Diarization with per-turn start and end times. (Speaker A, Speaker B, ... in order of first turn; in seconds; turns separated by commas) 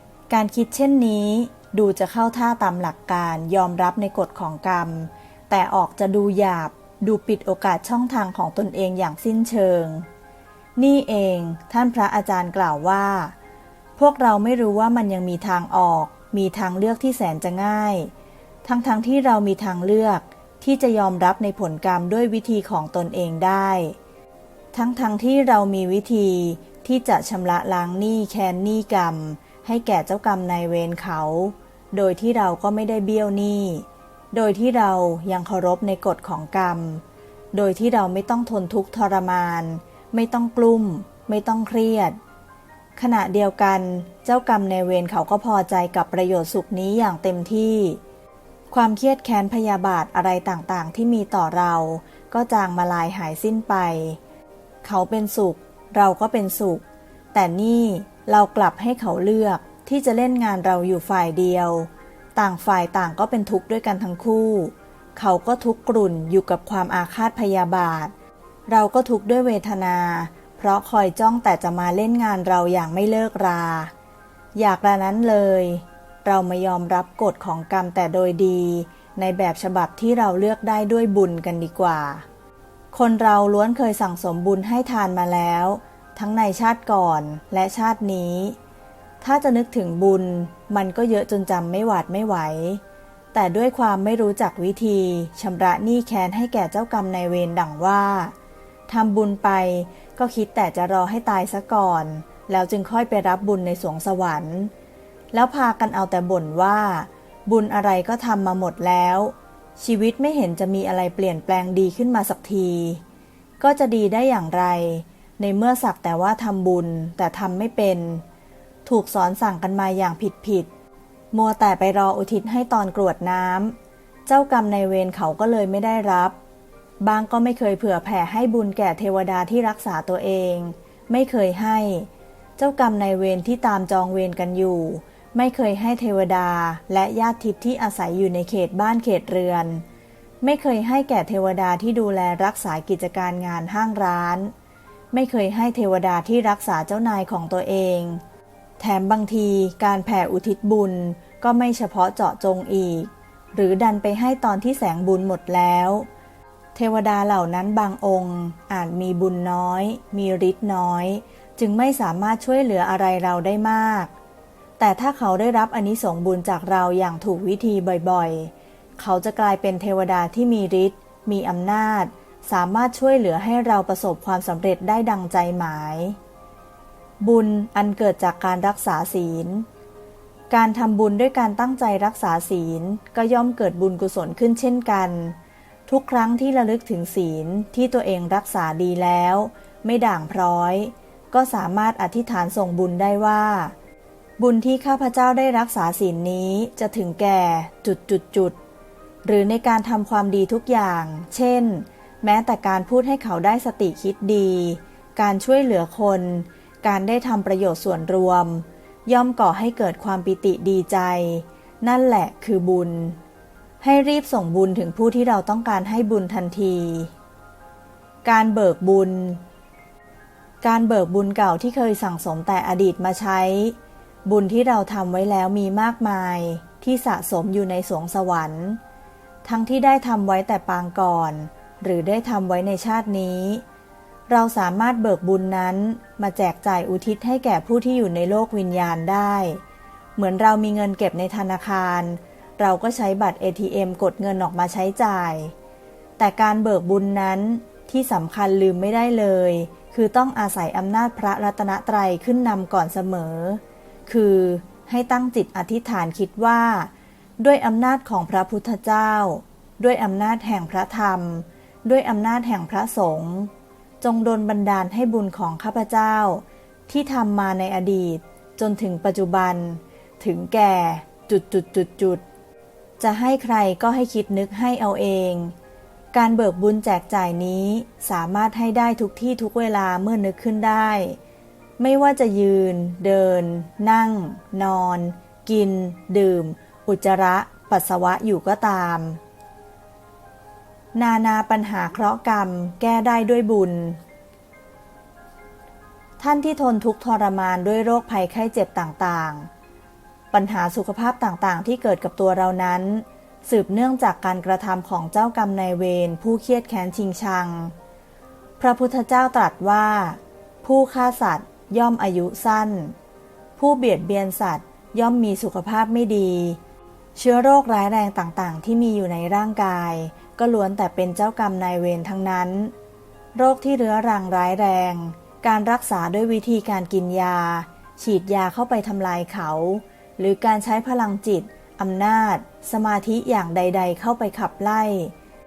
Speaker A: 0.3-10.1, Speaker A: 10.8-13.3, Speaker A: 13.9-18.1, Speaker A: 18.6-24.0, Speaker A: 24.7-42.2, Speaker A: 43.0-48.0, Speaker A: 48.7-54.2, Speaker A: 54.8-68.1, Speaker A: 68.7-73.9, Speaker A: 74.5-82.2, Speaker A: 82.9-88.6, Speaker A: 89.2-92.8, Speaker A: 93.3-98.3, Speaker A: 98.9-104.7, Speaker A: 105.3-113.0, Speaker A: 113.6-118.2, Speaker A: 118.8-120.7, Speaker A: 121.3-123.8, Speaker A: 124.3-126.3, Speaker A: 127.0-139.8, Speaker A: 140.4-144.5, Speaker A: 145.1-148.2, Speaker A: 148.8-156.1, Speaker A: 156.7-164.1, Speaker A: 164.8-176.2, Speaker A: 177.2-179.7, Speaker A: 180.5-193.7, Speaker A: 194.4-198.6, Speaker A: 199.2-213.2, Speaker A: 213.8-217.1, Speaker A: 218.2-219.4, Speaker A: 220.6-228.8, Speaker A: 229.4-233.6, Speaker A: 234.3-239.6, Speaker A: 240.2-245.5, Speaker A: 246.2-272.2, Speaker A: 273.0-275.5, Speaker A: 276.1-281.2, Speaker A: 281.8-289.2, Speaker A: 290.9-294.0, Speaker A: 296.2-299.5, Speaker A: 300.3-307.7, Speaker A: 308.6-312.9, Speaker A: 313.6-316.6, Speaker A: 317.1-322.7, Speaker A: 323.3-335.1